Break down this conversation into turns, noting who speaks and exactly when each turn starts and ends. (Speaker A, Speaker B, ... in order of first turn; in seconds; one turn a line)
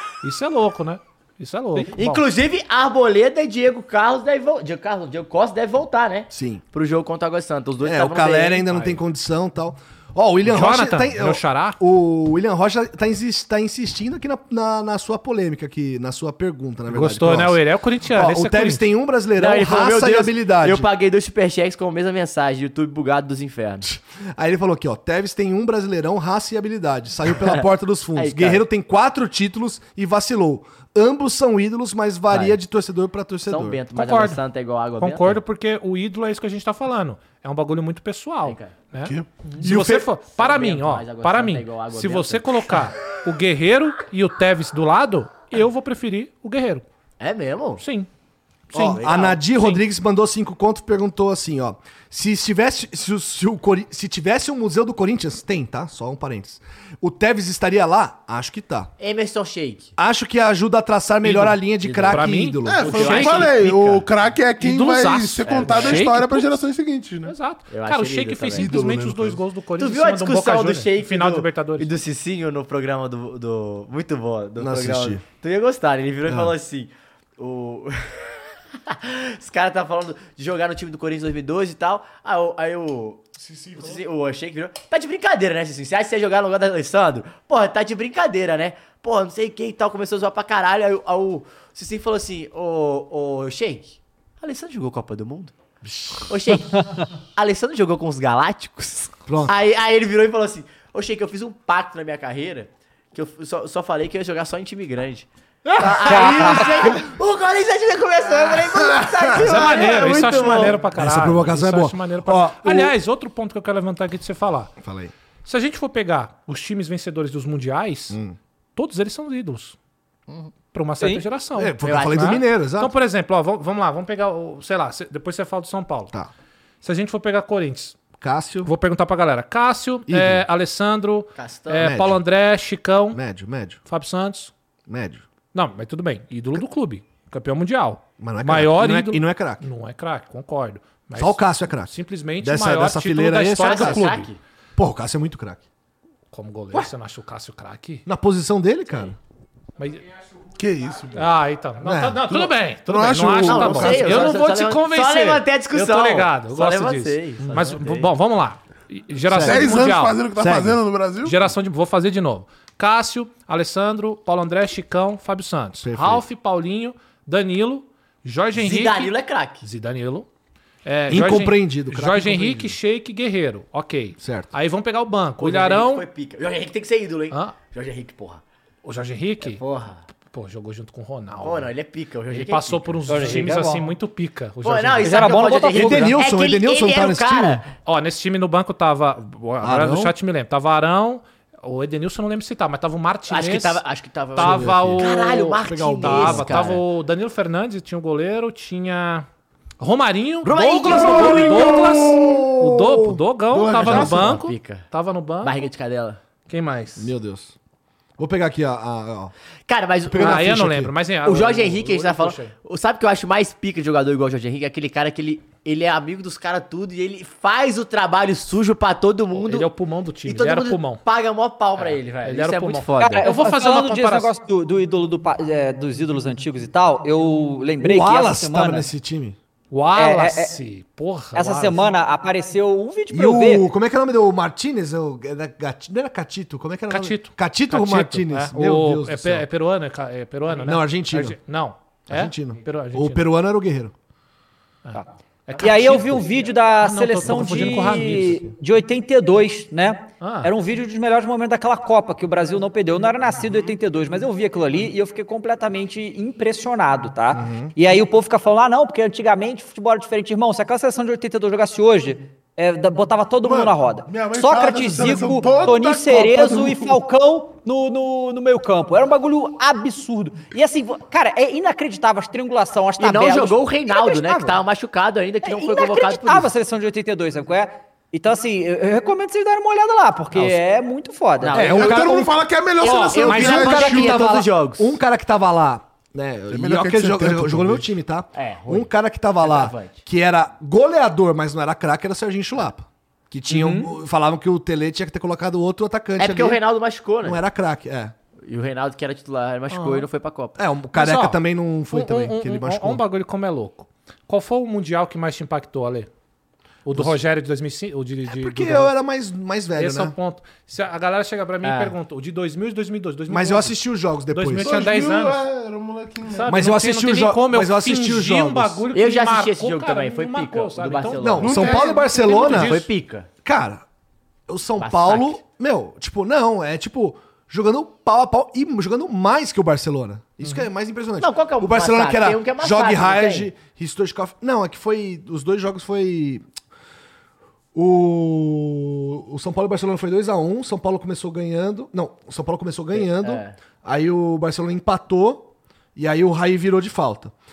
Speaker A: 0.2-2.2
Speaker B: 1.9-9.0
Speaker C: 6.3-6.6
Speaker C: 7.8-20.9
Speaker A: 10.4-11.8
Speaker A: 16.9-18.9
Speaker B: 19.4-23.9
Speaker C: 23.9-33.8
Speaker B: 28.2-28.6
Speaker B: 32.3-32.6
Speaker B: 33.5-35.4
Speaker A: 33.9-34.4
Speaker A: 35.0-46.9
Speaker B: 38.5-38.7
Speaker D: 39.0-39.3
Speaker C: 39.6-40.1
Speaker B: 40.3-42.7
Speaker B: 47.2-47.8
Speaker A: 47.8-48.1
Speaker A: 48.7-49.8
Speaker C: 48.7-58.9
Speaker B: 48.8-49.4
Speaker B: 59.0-59.9
Speaker C: 60.0-63.0
Speaker A: 61.2-64.0
Speaker B: 61.8-62.3
Speaker D: 62.6-67.3
Speaker B: 62.9-64.0
Speaker A: 64.6-66.5
Speaker B: 65.5-66.1
Speaker A: 67.3-71.9
Speaker B: 67.7-68.8
Speaker D: 68.5-69.4
Speaker B: 69.8-78.3
Speaker C: 74.6-75.2
Speaker C: 76.3-76.5
Speaker B: 78.8-95.5
Speaker B: 96.3-110.8
Speaker E: 96.7-97.0
Speaker C: 99.3-99.5
Speaker C: 105.8-106.3
Speaker E: 106.0-107.0
Speaker D: 108.8-109.2
Speaker A: 109.3-114.7
Speaker C: 111.0-112.9
Speaker C: 114.8-115.1
Speaker A: 115.5-118.2
Speaker C: 118.1-118.4
Speaker A: 118.8-119.8
Speaker A: 120.7-126.1
Speaker C: 121.6-122.9
Speaker B: 121.8-122.4
Speaker A: 126.8-128.0
Speaker C: 128.2-128.7
Speaker A: 128.6-133.2
Speaker C: 130.1-130.4
Speaker B: 131.4-132.0
Speaker C: 131.8-132.2
Speaker C: 133.1-133.8
Speaker A: 133.9-134.5
Speaker C: 134.9-135.2
Speaker A: 135.5-144.3
Speaker C: 138.2-139.7
Speaker C: 141.2-144.1
Speaker B: 143.6-144.4
Speaker C: 144.8-145.6
Speaker A: 146.3-148.1
Speaker C: 148.1-149.2
Speaker A: 149.8-150.1
Speaker D: 150.6-151.2
Speaker A: 151.2-160.2
Speaker C: 151.8-152.2
Speaker D: 152.3-154.3
Speaker B: 153.4-158.1
Speaker C: 157.4-157.7
Speaker C: 159.3-159.8
Speaker D: 159.4-161.4
Speaker C: 160.4-160.8
Speaker A: 161.2-170.3
Speaker C: 165.8-166.2
Speaker B: 168.6-169.6
Speaker A: 170.8-176.1
Speaker C: 171.1-172.8
Speaker C: 174.2-174.5
Speaker B: 175.4-178.4
Speaker A: 177.3-177.6
Speaker A: 178.8-179.6
Speaker B: 179.4-180.0
Speaker A: 180.3-181.7
Speaker B: 181.4-183.4
Speaker A: 182.3-185.4
Speaker E: 183.1-183.9
Speaker B: 184.6-187.7
Speaker E: 185.0-186.2
Speaker C: 185.7-187.6
Speaker A: 187.8-193.8
Speaker C: 189.6-190.1
Speaker B: 193.3-196.8
Speaker A: 194.3-199.3
Speaker C: 194.4-196.8
Speaker A: 199.8-205.6
Speaker B: 200.4-202.0
Speaker D: 200.8-202.5
Speaker C: 202.2-203.2
Speaker D: 203.5-204.4
Speaker B: 203.8-204.9
Speaker B: 205.4-206.2
Speaker A: 206.5-207.1
Speaker C: 207.0-207.5
Speaker C: 208.2-209.3
Speaker B: 209.7-210.6
Speaker C: 210.1-210.9
Speaker A: 210.2-212.5
Speaker B: 211.2-219.7
Speaker A: 219.3-221.0
Speaker B: 220.3-223.3
Speaker A: 221.8-224.3
Speaker E: 223.0-228.9
Speaker C: 227.8-229.4
Speaker A: 229.7-231.9
Speaker E: 229.9-230.6
Speaker E: 231.3-233.7
Speaker C: 233.1-239.5
Speaker A: 236.9-243.3
Speaker C: 240.6-241.4
Speaker C: 242.1-243.9
Speaker A: 244.8-248.5
Speaker E: 245.6-274.6
Speaker A: 250.2-250.5
Speaker C: 257.3-257.7
Speaker D: 263.4-267.0
Speaker B: 273.0-276.5
Speaker E: 275.4-281.6
Speaker B: 281.4-282.2
Speaker C: 281.5-282.4
Speaker D: 281.6-284.2
Speaker B: 282.8-285.0
Speaker A: 282.8-284.0
Speaker C: 283.3-296.6
Speaker D: 286.5-287.9
Speaker B: 288.4-288.9
Speaker B: 289.4-290.0
Speaker E: 293.5-293.8
Speaker B: 296.2-297.4
Speaker C: 297.2-298.1
Speaker B: 298.4-300.6
Speaker A: 299.7-300.0
Speaker C: 300.6-303.0
Speaker A: 300.9-301.4
Speaker A: 301.9-306.1
Speaker A: 306.9-308.9
Speaker C: 308.3-310.1
Speaker A: 309.8-313.8
Speaker B: 311.6-311.9
Speaker C: 313.3-314.8
Speaker A: 314.3-315.4
Speaker D: 314.6-316.5
Speaker A: 316.2-322.9
Speaker C: 316.5-318.8
Speaker B: 318.9-323.3
Speaker C: 321.2-322.8
Speaker D: 321.4-322.4
Speaker C: 323.4-323.8
Speaker C: 324.5-336.4
Speaker B: 324.8-325.4
Speaker B: 331.2-333.5
Speaker C: 337.7-347.3
Speaker B: 342.9-343.6